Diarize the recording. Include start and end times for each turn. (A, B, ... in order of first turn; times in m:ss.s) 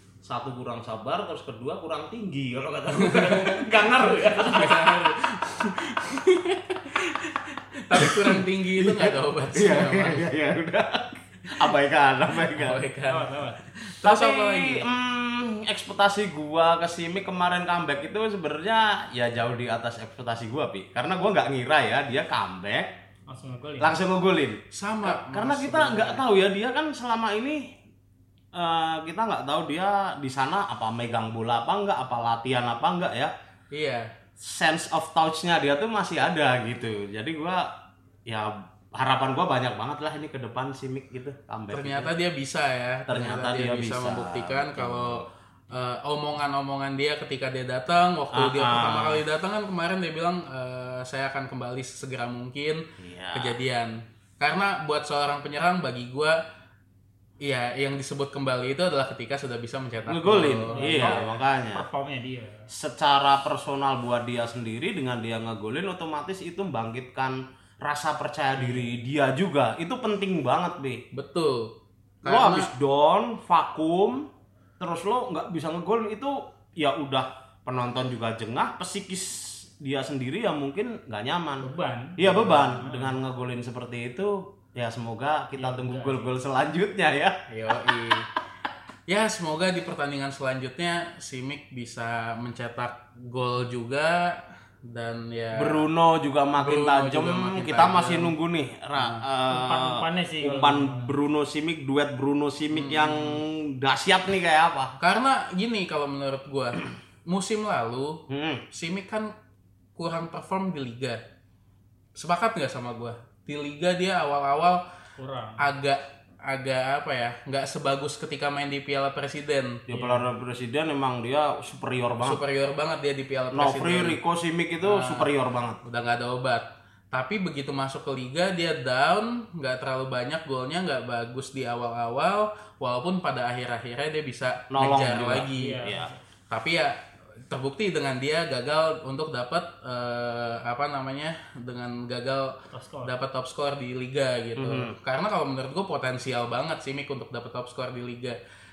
0:00.2-0:05.0 A
0:02.9-0:10.3 B
0:07.9-0:12.8 A
0:12.5-0:14.9 B
0:13.1-0:13.6 C
0:14.0-0:22.9 A
0:23.3-0:24.0 C
0:23.8-0:27.7 A
0:24.7-0:26.2 B
0:28.6-0:33.3 A
0:33.7-0:34.1 B
0:34.4-0:37.7 A
0:38.3-0:42.1 A
0:41.7-0:56.4 B
0:43.1-0:45.3 A
0:48.3-0:49.2 A
0:53.0-0:53.6 A
0:57.4-1:01.3 B
1:00.1-1:01.9 A
1:00.7-1:02.7 C
1:02.7-1:11.0 A
1:08.6-1:08.9 C
1:11.1-1:12.7 B
1:12.2-1:14.3 A
1:14.8-1:27.4 A
1:21.6-1:23.2 C
1:25.6-1:26.3 C
1:27.5-1:28.3 B
1:29.1-1:35.9 B
1:35.6-1:44.9 A
1:36.6-1:38.3 B
1:39.5-1:41.1 C
1:42.7-1:43.4 B
1:45.0-1:49.3 B
1:48.3-1:48.6 A
1:50.0-1:51.2 B
1:52.2-1:54.8 B
1:55.2-1:55.6 C
1:55.6-1:59.8 B
1:59.9-2:02.4 A
1:59.9-2:00.3 C
2:02.2-2:04.2 B
2:03.5-2:05.8 A
2:04.8-2:05.3 B
2:05.8-2:15.9 B
2:14.7-2:16.1 A
2:15.5-2:16.2 C
2:16.5-2:17.0 B
2:17.5-2:22.5 B
2:22.7-2:23.1 C
2:23.0-2:28.4 B
2:24.6-2:25.0 A